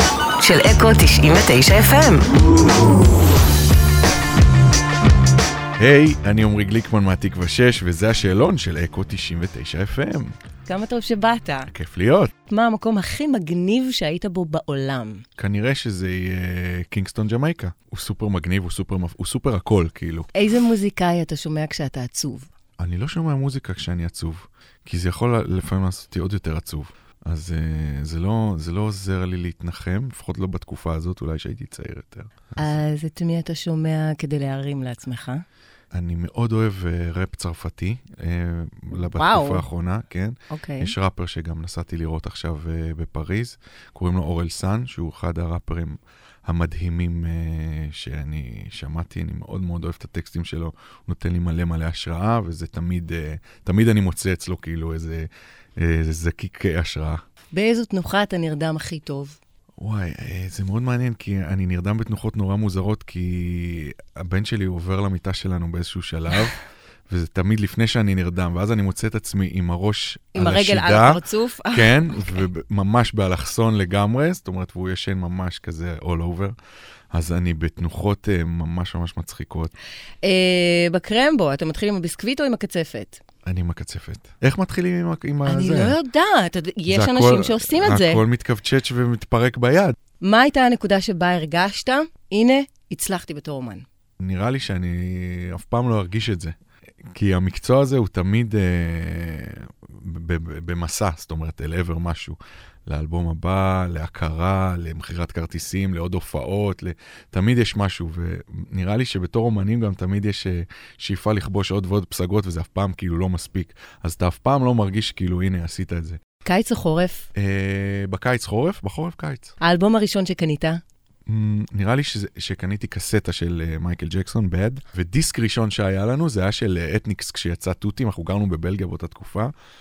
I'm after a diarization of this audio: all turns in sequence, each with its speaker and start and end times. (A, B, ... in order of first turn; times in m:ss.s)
0:00.4-0:02.4 A
0:05.8-0:10.3 B
0:10.6-0:11.7 A
0:11.7-0:12.3 B
0:12.5-0:15.2 A
0:15.4-0:20.3 B
0:20.3-0:22.5 A
0:22.8-0:32.8 B
0:32.6-0:35.4 A
0:35.9-0:57.2 B
0:39.1-0:39.6 A
0:40.5-0:40.9 A
0:57.5-0:59.4 A
0:59.8-1:16.5 B
1:10.3-1:12.4 A
1:17.1-1:19.7 B
1:20.2-1:23.2 A
1:23.4-1:26.0 B
1:25.4-1:28.2 A
1:26.9-1:29.9 B
1:30.2-1:33.8 A
1:34.2-1:36.5 B
1:37.1-1:56.2 B
1:56.4-1:57.3 A
1:57.3-1:59.5 B
1:59.6-2:00.8 A
2:01.3-2:09.5 B